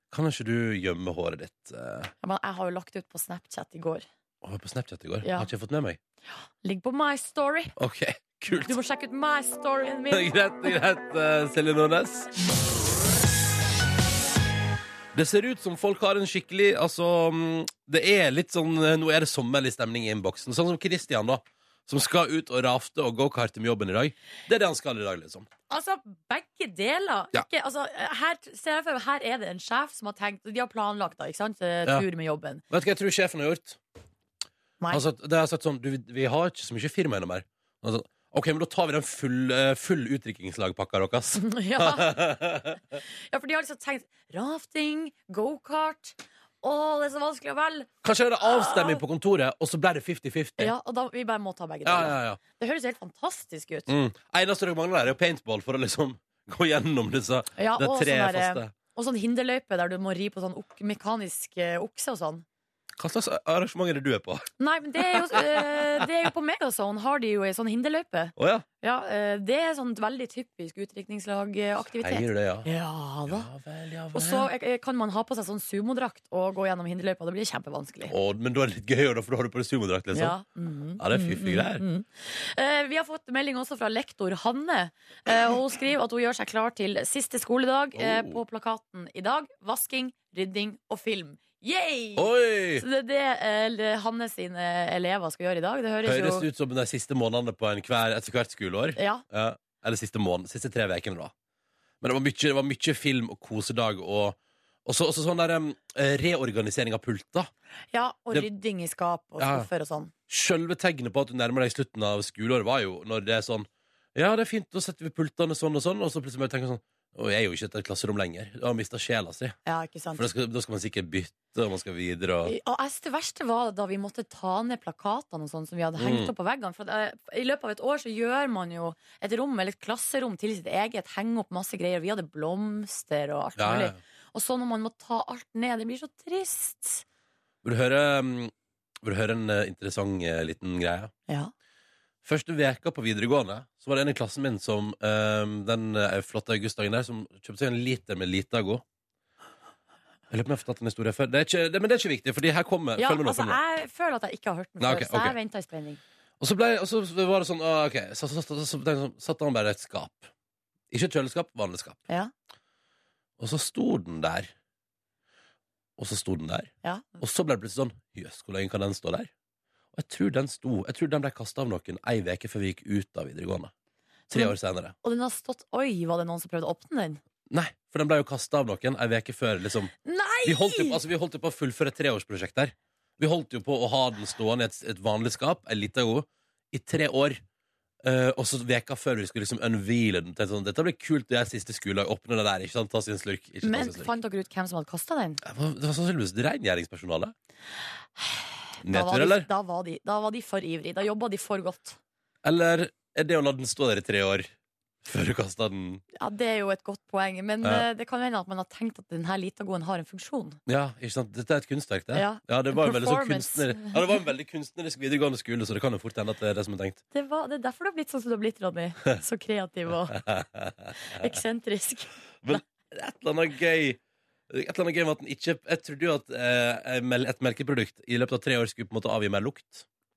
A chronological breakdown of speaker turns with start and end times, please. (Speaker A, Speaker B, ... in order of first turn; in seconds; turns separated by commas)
Speaker A: 0.1-2.1, Speaker B: 2.2-4.0, Speaker A: 4.4-6.0, Speaker B: 5.2-5.5, Speaker B: 6.6-7.7, Speaker A: 7.8-8.8, Speaker B: 8.6-10.7, Speaker A: 10.1-12.3, Speaker A: 15.1-25.5, Speaker B: 25.7-32.6, Speaker A: 32.7-33.8, Speaker A: 34.9-42.8, Speaker B: 41.4-42.2, Speaker B: 43.3-47.9, Speaker A: 48.0-50.7, Speaker B: 48.4-49.0, Speaker B: 50.6-53.9, Speaker A: 51.8-52.4, Speaker A: 53.9-58.7, Speaker B: 57.6-62.4, Speaker A: 63.0-66.1, Speaker B: 64.6-73.5, Speaker A: 68.4-68.7, Speaker A: 71.9-72.7, Speaker A: 73.3-74.5, Speaker B: 74.1-78.1, Speaker A: 78.1-80.4, Speaker B: 80.1-96.5, Speaker A: 81.0-81.8, Speaker A: 87.9-88.4, Speaker A: 92.2-92.8, Speaker A: 96.0-101.3, Speaker B: 99.0-99.2, Speaker A: 102.0-107.5, Speaker B: 107.9-110.1, Speaker A: 109.4-109.7, Speaker A: 110.3-119.5, Speaker B: 119.7-120.2, Speaker A: 120.1-122.5, Speaker B: 122.4-137.0, Speaker A: 126.0-126.3, Speaker A: 133.6-134.0, Speaker A: 137.6-141.1, Speaker A: 142.2-148.8, Speaker A: 150.3-153.6, Speaker B: 153.0-156.0, Speaker A: 154.8-155.4, Speaker A: 156.4-160.3, Speaker A: 160.9-162.0, Speaker A: 163.4-164.5, Speaker A: 166.0-166.7, Speaker B: 166.8-167.2, Speaker A: 167.2-169.3, Speaker A: 169.9-173.7, Speaker B: 174.3-177.2, Speaker A: 174.3-174.9, Speaker A: 177.5-179.9, Speaker B: 180.0-181.0, Speaker A: 180.4-187.4, Speaker A: 188.0-194.1, Speaker B: 193.6-195.4, Speaker A: 195.4-197.3, Speaker B: 198.2-202.0, Speaker A: 198.8-199.5, Speaker A: 202.4-204.5, Speaker A: 205.0-206.0, Speaker B: 206.2-210.6, Speaker A: 210.7-217.0, Speaker B: 212.1-214.0, Speaker B: 217.1-220.2, Speaker A: 220.1-221.3, Speaker B: 221.1-222.1, Speaker A: 222.4-224.0, Speaker A: 224.5-229.8